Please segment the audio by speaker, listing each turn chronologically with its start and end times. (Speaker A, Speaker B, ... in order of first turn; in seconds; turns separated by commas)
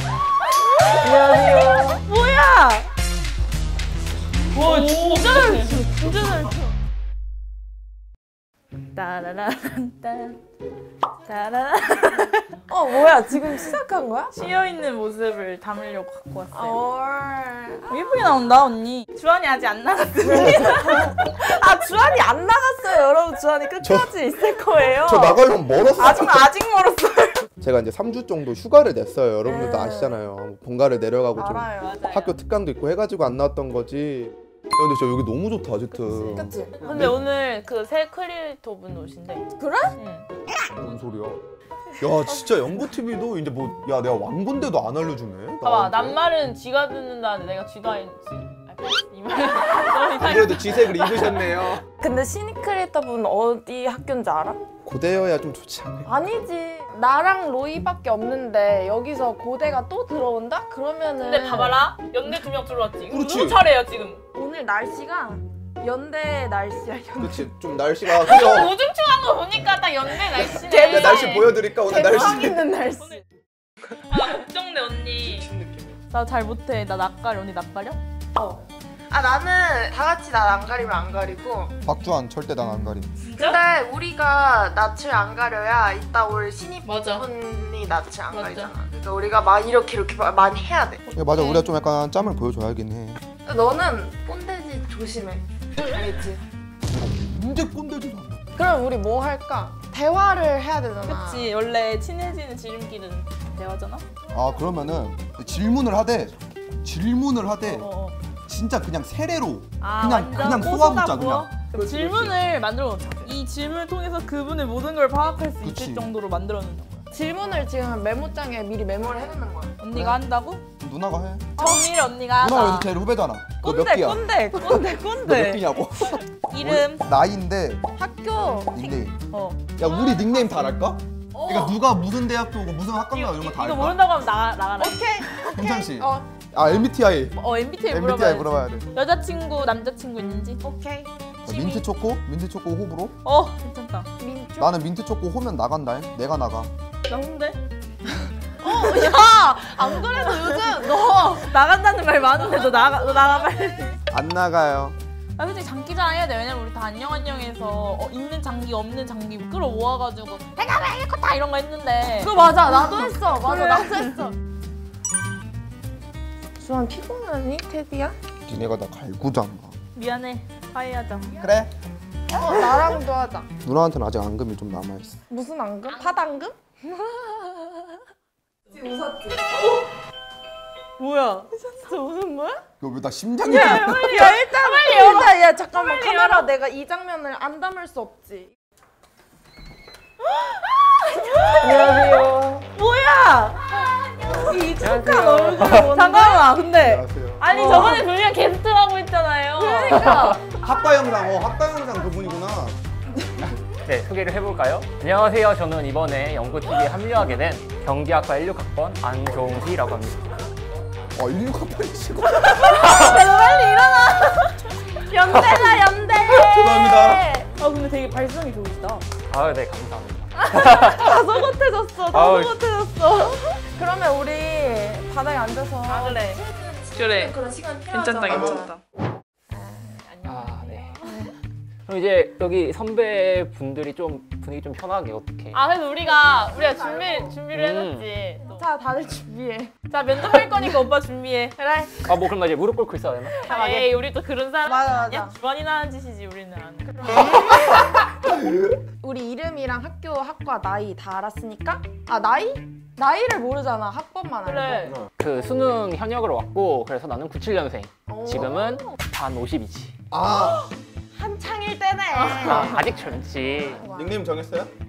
Speaker A: 0.8-1.5, Speaker B: 1.0-2.0, Speaker A: 2.0-2.9, Speaker A: 4.5-6.7, Speaker B: 4.6-6.1, Speaker A: 8.9-10.4, Speaker A: 11.2-12.5, Speaker B: 12.7-14.3, Speaker A: 14.3-16.8, Speaker B: 16.5-18.0, Speaker A: 17.9-21.2, Speaker B: 20.2-25.3, Speaker C: 23.8-24.1, Speaker A: 24.2-25.4, Speaker C: 25.0-26.5, Speaker A: 26.0-27.5, Speaker C: 27.6-37.2, Speaker B: 29.4-30.2, Speaker B: 31.4-31.9, Speaker A: 31.8-32.4, Speaker A: 35.9-40.3, Speaker B: 36.3-37.0, Speaker B: 39.6-40.0, Speaker C: 40.8-41.4, Speaker C: 42.0-46.2, Speaker A: 45.6-51.5, Speaker C: 50.2-51.8, Speaker B: 52.0-54.6, Speaker C: 54.8-56.1, Speaker B: 56.1-61.8, Speaker A: 61.2-64.2, Speaker C: 63.1-63.6, Speaker B: 64.3-67.5, Speaker C: 67.2-68.8, Speaker A: 68.1-71.6, Speaker B: 70.5-73.2, Speaker C: 70.7-72.6, Speaker A: 74.0-75.5, Speaker C: 75.2-75.9, Speaker A: 76.1-78.0, Speaker B: 78.4-81.8, Speaker C: 81.8-83.2, Speaker A: 83.2-83.6, Speaker B: 83.4-91.1, Speaker A: 86.8-87.2, Speaker A: 88.3-88.7, Speaker C: 91.2-93.2, Speaker A: 91.2-91.7, Speaker B: 93.5-96.4, Speaker C: 96.9-98.5, Speaker B: 98.6-101.5, Speaker A: 101.1-104.0, Speaker C: 104.3-107.9, Speaker A: 107.7-108.2, Speaker C: 108.5-112.4, Speaker A: 109.8-117.0, Speaker C: 115.6-116.1, Speaker B: 117.1-119.7, Speaker A: 119.8-120.6, Speaker C: 119.9-120.2, Speaker C: 120.8-121.6, Speaker B: 121.6-121.9, Speaker A: 121.6-122.9, Speaker C: 122.4-124.2, Speaker B: 123.6-125.2, Speaker A: 124.6-125.7, Speaker C: 125.0-127.9, Speaker A: 126.3-127.1, Speaker B: 128.0-129.0, Speaker C: 128.7-129.2, Speaker A: 129.3-129.8, Speaker C: 129.8-134.0, Speaker B: 130.0-130.4, Speaker B: 131.3-131.8, Speaker A: 133.1-135.2, Speaker B: 134.8-136.3, Speaker C: 135.4-137.4, Speaker A: 137.4-140.6, Speaker C: 137.9-138.9, Speaker B: 140.6-141.1, Speaker C: 141.4-143.1, Speaker A: 141.5-141.8, Speaker A: 143.2-144.1, Speaker B: 144.2-144.8, Speaker C: 144.6-146.7, Speaker A: 147.1-147.6, Speaker B: 148.6-151.5, Speaker A: 148.7-150.7, Speaker A: 151.3-154.0, Speaker C: 154.1-155.0, Speaker A: 155.4-164.3, Speaker B: 162.2-164.3, Speaker B: 166.6-168.2, Speaker C: 168.5-169.8, Speaker A: 169.9-171.4, Speaker C: 171.4-171.7, Speaker B: 172.3-173.5, Speaker C: 173.6-175.2, Speaker B: 175.3-177.8, Speaker B: 178.7-179.6, Speaker A: 181.0-182.2, Speaker B: 182.0-182.6, Speaker C: 182.8-184.4, Speaker B: 183.5-188.5, Speaker A: 183.5-186.5, Speaker A: 190.7-192.2, Speaker B: 191.5-192.7, Speaker A: 192.8-200.4, Speaker B: 194.1-196.8, Speaker D: 194.8-195.9, Speaker C: 196.8-197.4, Speaker B: 197.5-198.1, Speaker B: 199.6-200.4, Speaker D: 200.0-200.3, Speaker C: 200.5-202.8, Speaker D: 203.8-210.3, Speaker C: 211.2-213.0, Speaker B: 212.7-214.5, Speaker A: 213.0-214.4, Speaker B: 215.0-217.5, Speaker C: 216.3-217.3, Speaker A: 217.6-219.1, Speaker D: 219.3-221.2, Speaker B: 220.4-222.4, Speaker A: 220.9-221.5, Speaker A: 222.1-223.6, Speaker D: 222.1-222.6, Speaker B: 223.7-228.7, Speaker A: 225.9-226.4, Speaker A: 226.9-227.3, Speaker A: 227.9-228.8, Speaker C: 228.3-228.6, Speaker B: 229.5-230.0, Speaker A: 230.0-231.2, Speaker D: 230.2-231.0, Speaker B: 231.1-231.3, Speaker D: 231.9-235.6, Speaker A: 235.5-238.7, Speaker B: 236.0-237.4, Speaker D: 237.5-238.1, Speaker B: 238.4-239.7, Speaker A: 239.9-241.6, Speaker B: 241.6-242.1, Speaker D: 242.0-243.9, Speaker A: 243.4-248.0, Speaker B: 244.7-245.3, Speaker B: 247.1-248.0, Speaker C: 248.2-248.8, Speaker B: 249.0-254.9, Speaker A: 254.4-254.9, Speaker C: 254.8-255.1, Speaker D: 255.2-259.9, Speaker B: 258.1-258.9, Speaker C: 260.1-260.6, Speaker B: 261.1-264.2, Speaker A: 262.1-262.9, Speaker D: 262.4-263.8, Speaker C: 262.5-262.8, Speaker C: 263.9-264.7